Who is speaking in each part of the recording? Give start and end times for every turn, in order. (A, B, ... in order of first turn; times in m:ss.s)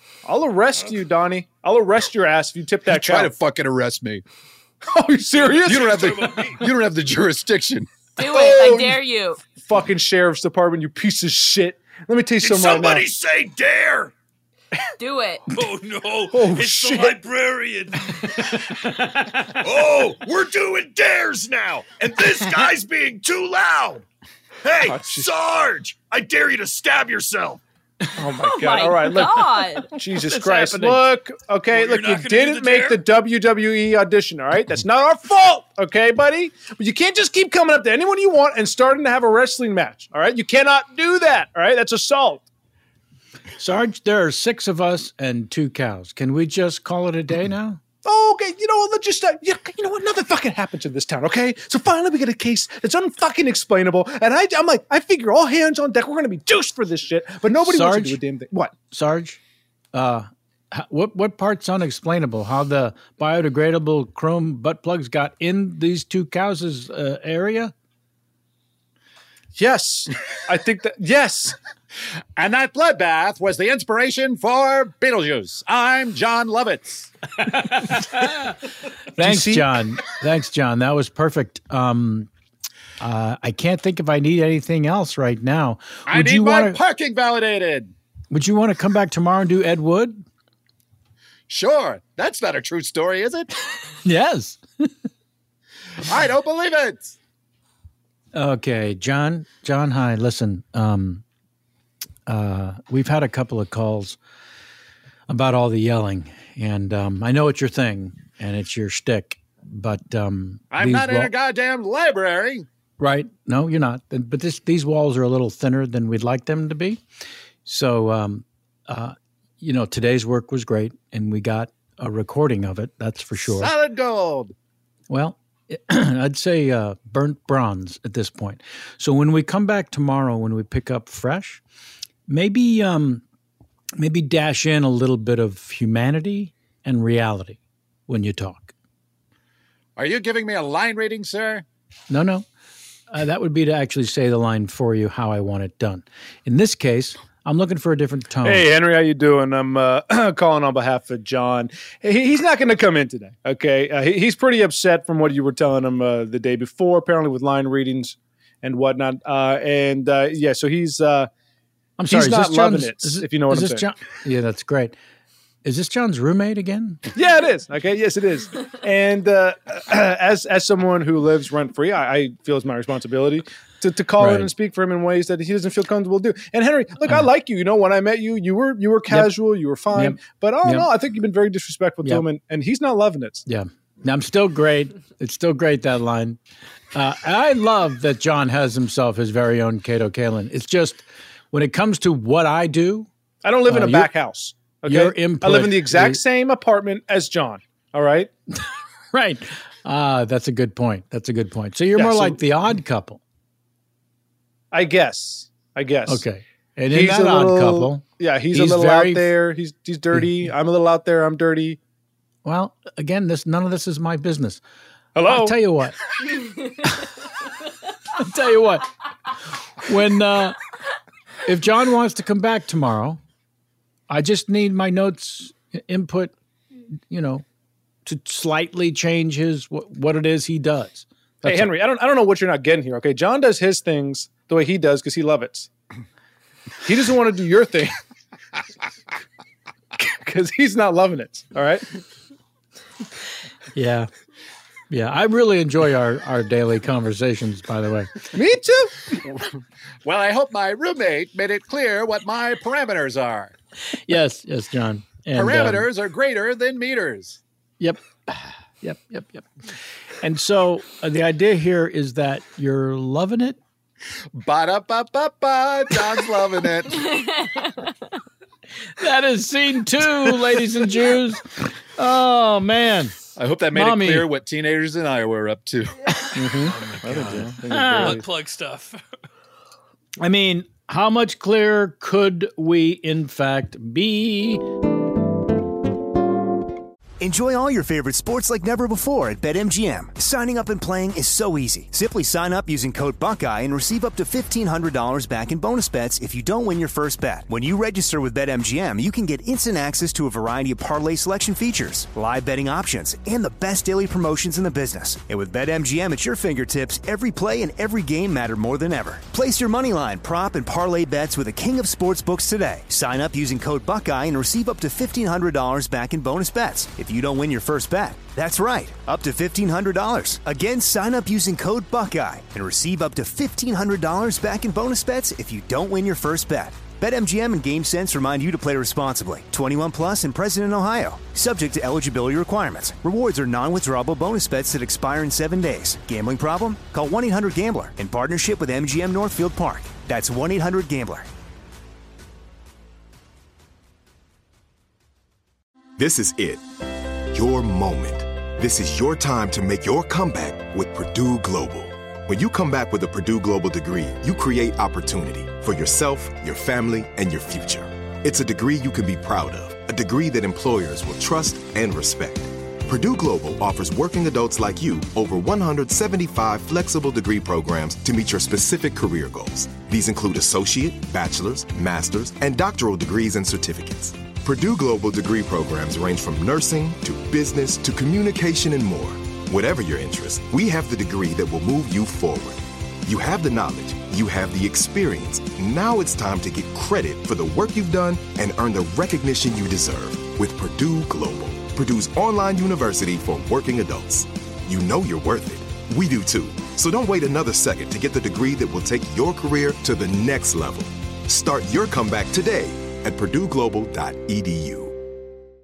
0:00.2-0:03.3 A
0:02.9-0:04.2 B
0:04.8-0:05.9 A
0:05.4-0:06.6 C
0:05.6-0:07.9 B
0:08.2-0:09.4 D
0:08.2-0:09.0 A
0:09.5-0:13.1 A
0:12.4-0:14.1 E
0:15.0-0:15.4 D
0:15.5-0:18.3 C
0:16.3-0:17.2 A
0:19.6-0:24.0 E
0:24.6-0:27.6 E
0:24.8-0:25.3 A
0:28.2-0:42.4 A
0:28.4-0:29.9 D
0:30.1-0:31.0 F
0:31.7-0:33.0 C
0:43.6-0:47.8 F
0:48.0-0:58.8 A
0:57.6-0:58.2 F
0:58.9-0:59.4 F
0:59.9-1:07.7 F
1:09.5-1:11.5 A
1:12.4-1:17.1 B
1:19.2-1:22.3 F
1:19.2-1:19.7 A
1:23.0-1:26.8 F
1:26.1-1:27.9 B
1:28.3-1:30.2 F
1:31.5-1:33.5 B
1:34.0-1:34.6 F
1:36.0-1:37.1 B
1:38.3-1:41.2 F
1:42.3-1:44.2 F
1:45.3-1:51.3 F
1:50.7-1:52.7 B
1:53.0-1:57.0 F
1:57.6-2:03.7 F
2:03.4-2:04.5 B
2:05.1-2:11.6 F
2:12.3-2:13.2 F
2:14.0-2:18.7 F
2:20.0-2:21.6 B
2:22.1-2:22.4 F
2:23.1-2:28.7 F
2:28.4-2:41.3 A
2:42.0-2:45.0 F
2:42.1-2:43.8 A
2:45.6-2:47.0 F
2:47.1-3:03.4 A
2:54.2-2:54.5 F
2:57.0-2:57.3 F
2:59.1-3:00.9 F
3:03.4-3:06.4 F
3:06.9-3:13.1 F
3:13.4-3:18.3 A
3:13.6-3:14.1 F
3:14.8-3:16.2 F
3:19.1-3:23.2 F
3:21.9-3:22.4 A
3:24.7-3:26.2 A
3:26.0-3:29.4 F
3:26.9-3:31.8 A
3:30.1-3:30.5 F
3:32.4-3:34.6 F
3:35.2-3:35.6 A
3:35.2-3:36.0 F
3:38.2-3:38.9 F
3:39.8-3:40.6 F
3:41.4-3:43.2 F
3:44.1-3:46.3 F
3:47.1-3:47.4 F
3:48.0-3:51.7 F
3:51.4-3:55.7 A
3:56.8-3:57.9 A
4:00.0-4:01.8 A
4:03.7-4:04.1 F
4:04.9-4:08.2 F
4:08.3-4:09.1 A
4:10.0-4:13.6 B
4:14.0-4:15.9 F
4:15.3-4:17.4 B
4:17.8-4:19.5 F
4:20.2-4:23.6 F
4:24.3-4:27.0 B
4:27.0-4:27.9 D
4:29.0-4:33.2 F
4:33.4-4:36.0 B
4:33.7-4:34.3 F
4:36.4-4:38.2 A
4:36.6-4:38.2 F
4:37.9-4:39.0 C
4:40.2-4:44.6 F
4:47.2-5:41.3 G
5:46.0-5:46.6 H
5:47.3-6:45.0 H